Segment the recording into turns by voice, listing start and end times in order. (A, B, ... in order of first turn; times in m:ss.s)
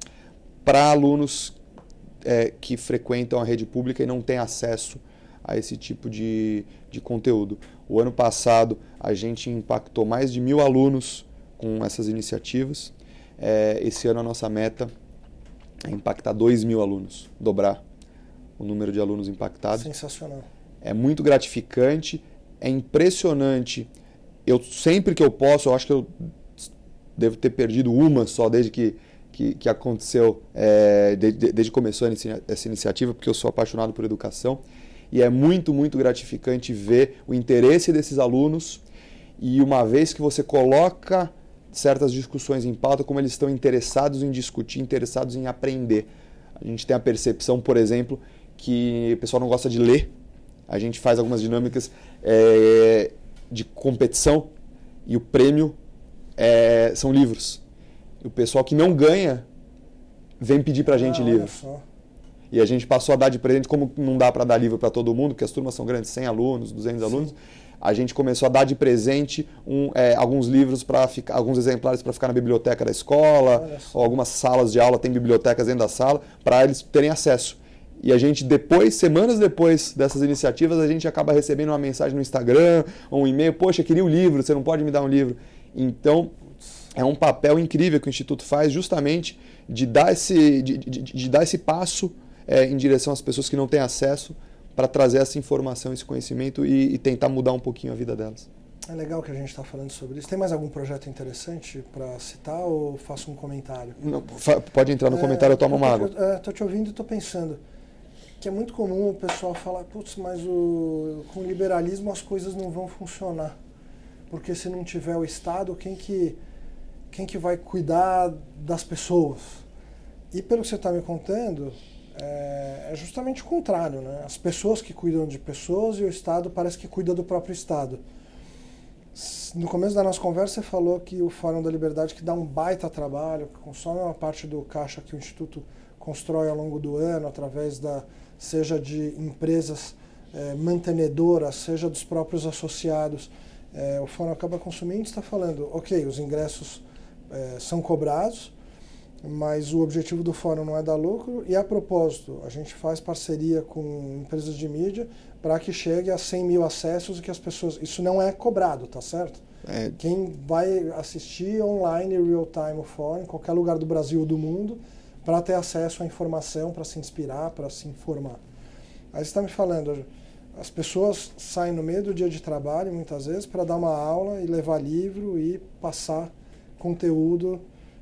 0:00.6-0:01.6 A
0:02.2-0:14.9 A
0:15.8-0:17.8 A
0:18.6-0:19.9 A
0:19.8-0:20.5 B
0:20.8-0:23.9 A
0:24.5-0:38.8 A
0:39.4-0:46.1 A
0:46.6-0:50.1 A
0:50.7-0:54.5 A
0:55.1-0:55.8 A
0:56.4-0:57.6 A
0:58.2-0:59.5 A
1:00.4-1:01.5 A
1:00.9-1:01.8 B
1:02.5-1:26.3 A
1:13.5-1:14.1 B
1:26.9-1:38.5 A
1:38.9-1:44.0 B
1:44.0-1:46.1 A
1:45.1-1:47.6 B
1:48.4-1:53.6 B
1:54.3-1:56.4 B
1:57.1-1:59.6 B
2:00.3-2:08.0 B
2:09.2-2:28.5 B
2:29.2-2:39.4 B
2:39.7-2:40.0 A
2:40.0-2:48.4 B
2:49.1-2:57.6 B